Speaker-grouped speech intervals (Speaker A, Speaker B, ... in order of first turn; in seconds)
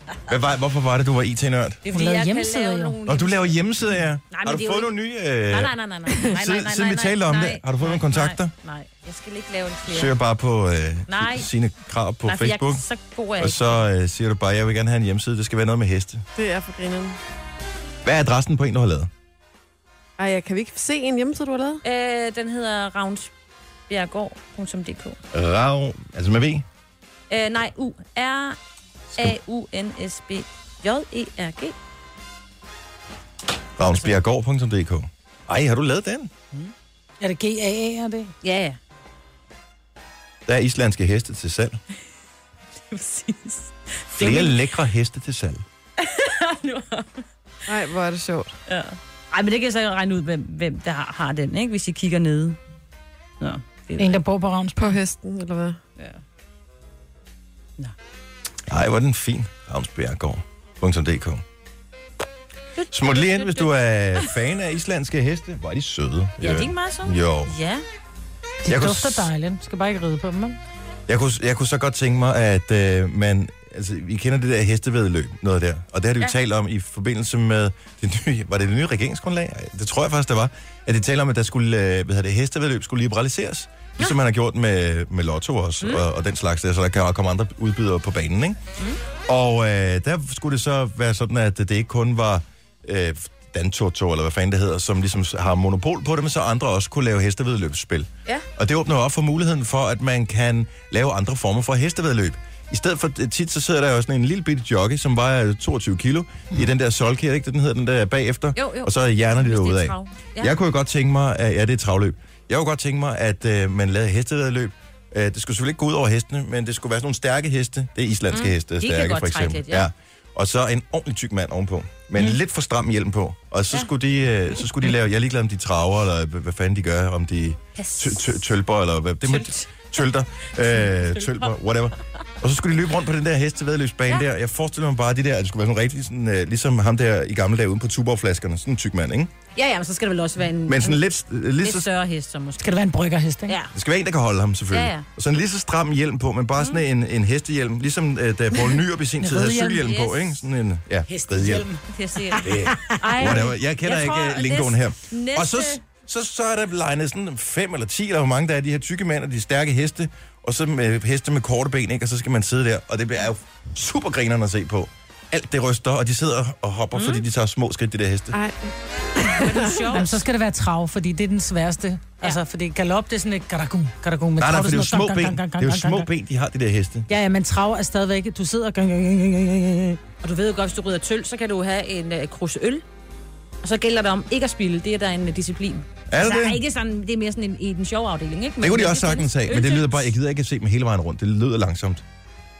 Speaker A: 0.3-1.8, 3.1-8.5, 9.9-12.8, 13.4-16.2, 18.0-19.1, 25.3-26.6, 33.8-36.3, 40.5-41.8, 44.1-45.6, 58.7-61.4, 62.9-67.5, 68.7-69.3, 71.1-88.6, 89.3-139.3, 140.7-141.9, 143.7-151.7, 152.4-168.4, 174.4-177.1, 186.1-186.6, 188.6-192.0
Speaker B: 1.8-3.6, 4.3-4.9, 5.5-10.1, 11.1-11.5, 12.2-13.8, 21.8-23.3, 23.9-25.2, 27.3-28.6, 29.2-31.7, 33.8-34.1, 38.4-38.8, 42.9-44.5, 46.0-47.2, 48.7-52.6, 53.4-54.2, 62.8-64.3, 66.4-67.8, 108.5-110.5, 118.3-119.9, 127.8-128.4, 129.2-129.8, 130.6-131.5, 139.5-141.1, 141.6-142.7, 143.5-143.7, 144.7-145.0, 149.6-150.4, 151.9-155.8, 166.9-167.2, 169.3-170.2, 180.2-182.8, 183.6-190.1
Speaker C: 1.9-3.0, 37.2-38.3, 54.0-54.9, 68.6-70.6, 142.6-143.6, 149.2-149.8, 151.1-151.8, 152.3-153.4, 169.9-176.1, 177.1-180.0
Speaker D: 16.4-17.2, 20.2-21.8, 47.7-48.5, 54.8-55.8, 168.3-169.9